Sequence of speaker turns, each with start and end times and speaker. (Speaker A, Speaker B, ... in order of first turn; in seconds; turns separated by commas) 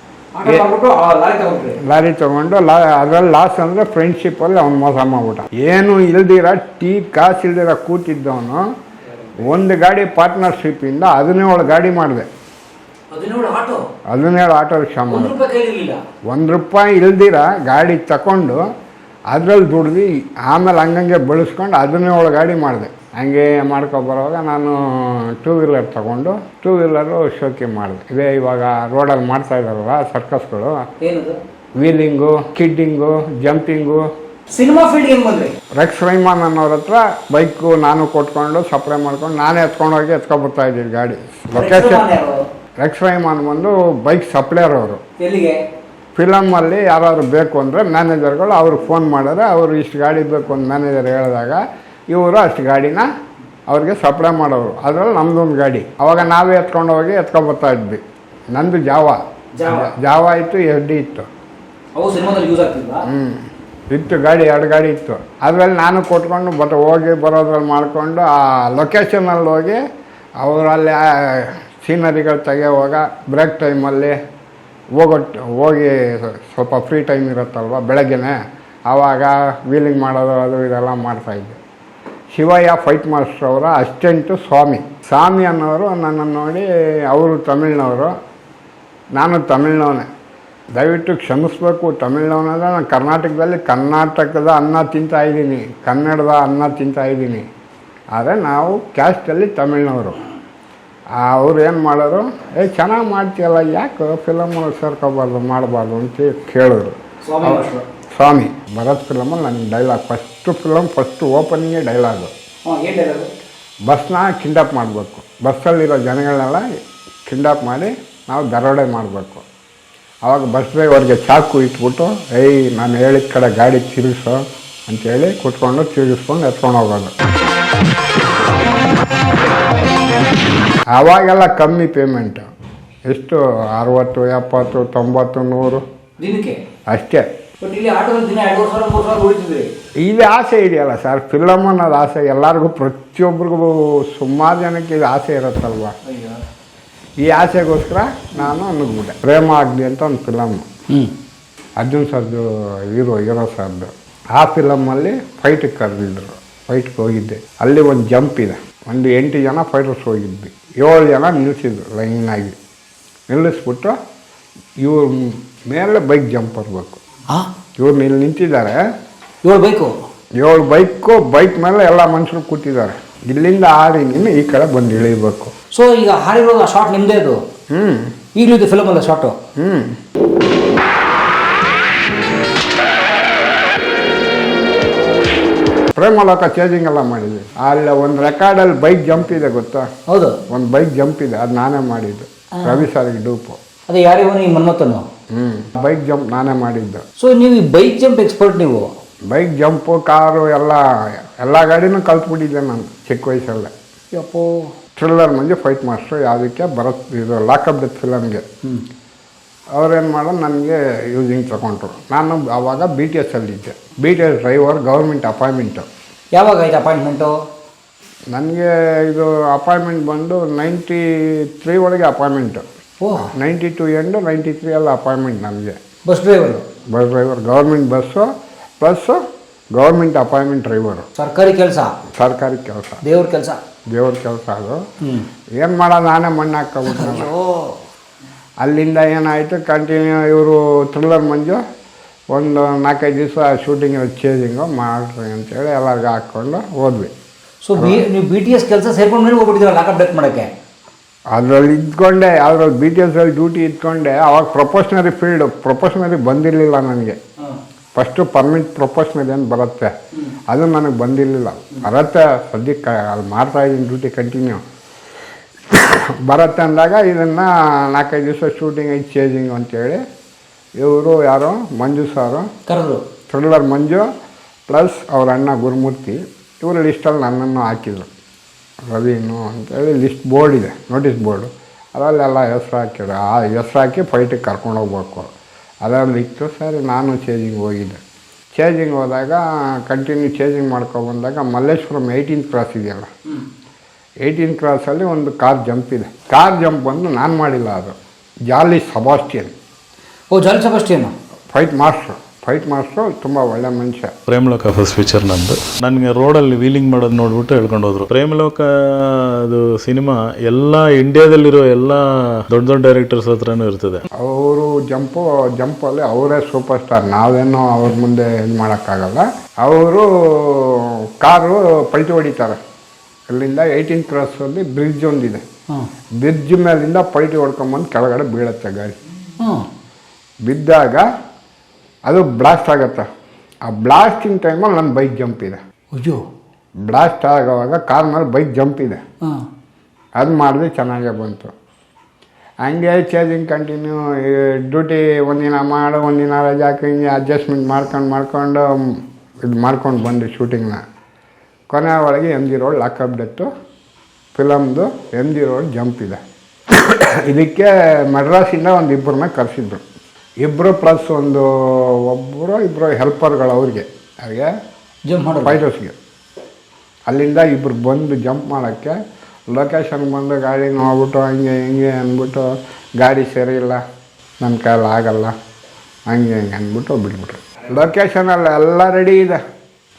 Speaker A: 0.3-1.8, Speaker B: 1.8-8.7, Speaker B: 9.4-12.3, Speaker A: 13.1-13.8, Speaker B: 14.1-15.3, Speaker A: 15.1-16.0, Speaker B: 16.3-18.7, Speaker B: 19.3-30.9, Speaker A: 31.0-31.4, Speaker B: 31.8-34.1, Speaker A: 34.5-35.5, Speaker B: 35.7-42.0, Speaker A: 41.5-42.4, Speaker B: 42.8-45.0, Speaker A: 45.2-45.6, Speaker B: 46.1-53.1, Speaker B: 53.7-58.0, Speaker B: 58.5-61.3, Speaker A: 59.6-59.9, Speaker A: 62.0-63.1, Speaker B: 63.0-69.8, Speaker B: 70.4-74.2, Speaker B: 75.0-78.4, Speaker B: 78.9-81.6, Speaker B: 82.3-88.2, Speaker B: 89.1-90.1, Speaker B: 90.7-97.5, Speaker B: 98.1-100.2, Speaker B: 101.1-112.3, Speaker A: 107.2-107.8, Speaker A: 112.6-113.3, Speaker B: 113.9-116.7, Speaker B: 117.2-119.5, Speaker B: 120.2-127.1, Speaker B: 130.9-132.5, Speaker B: 133.1-135.8, Speaker A: 136.2-136.6, Speaker B: 136.9-137.3, Speaker A: 137.6-139.7, Speaker B: 140.0-145.9, Speaker A: 146.1-146.4, Speaker B: 147.2-150.7, Speaker B: 151.8-162.5, Speaker B: 163.3-164.0, Speaker B: 164.8-167.0, Speaker B: 167.8-168.8, Speaker A: 169.4-169.9, Speaker B: 170.4-175.5, Speaker A: 175.7-177.4, Speaker B: 177.7-178.1, Speaker A: 178.3-179.4, Speaker B: 179.6-180.0, Speaker B: 185.9-189.9, Speaker A: 190.1-190.4, Speaker B: 190.5-193.6, Speaker A: 193.9-195.1, Speaker B: 195.3-197.0, Speaker A: 197.2-198.9, Speaker B: 199.3-200.8, Speaker B: 201.4-203.7, Speaker A: 204.1-204.7, Speaker B: 204.9-208.4, Speaker B: 209.7-215.9, Speaker A: 216.3-217.3, Speaker B: 218.3-222.6, Speaker A: 223.0-223.3, Speaker B: 223.2-225.8, Speaker A: 226.1-226.7, Speaker B: 226.8-228.3, Speaker B: 228.8-229.2, Speaker B: 229.7-231.1, Speaker A: 231.2-231.9, Speaker B: 232.1-233.0, Speaker A: 233.0-233.6, Speaker B: 233.9-234.8, Speaker B: 235.6-237.3, Speaker A: 237.0-237.7, Speaker B: 238.6-241.6, Speaker B: 242.3-247.1, Speaker A: 247.6-250.5, Speaker B: 247.8-248.0, Speaker B: 251.3-257.2, Speaker B: 257.9-259.9, Speaker B: 260.5-264.6, Speaker B: 265.7-270.0, Speaker B: 270.8-272.5, Speaker A: 272.7-273.0, Speaker B: 273.3-274.1, Speaker B: 274.7-278.1, Speaker B: 278.9-285.3, Speaker B: 285.8-288.0, Speaker B: 288.6-293.1, Speaker B: 294.2-297.9, Speaker B: 298.5-299.5, Speaker A: 300.3-301.1, Speaker B: 301.5-304.1, Speaker C: 304.3-314.0, Speaker B: 314.2-322.6, Speaker B: 323.3-325.4, Speaker B: 326.2-329.0, Speaker A: 329.4-329.7, Speaker B: 330.4-331.1, Speaker B: 332.1-333.1, Speaker B: 333.6-335.6, Speaker A: 335.9-336.2, Speaker B: 336.8-339.0, Speaker B: 340.2-341.5, Speaker B: 342.6-350.8, Speaker B: 351.7-353.5, Speaker B: 354.3-359.8, Speaker B: 360.4-364.5, Speaker A: 365.1-365.6, Speaker B: 365.4-365.9, Speaker B: 367.1-368.9, Speaker B: 369.5-373.8, Speaker B: 374.4-375.4, Speaker B: 376.1-379.4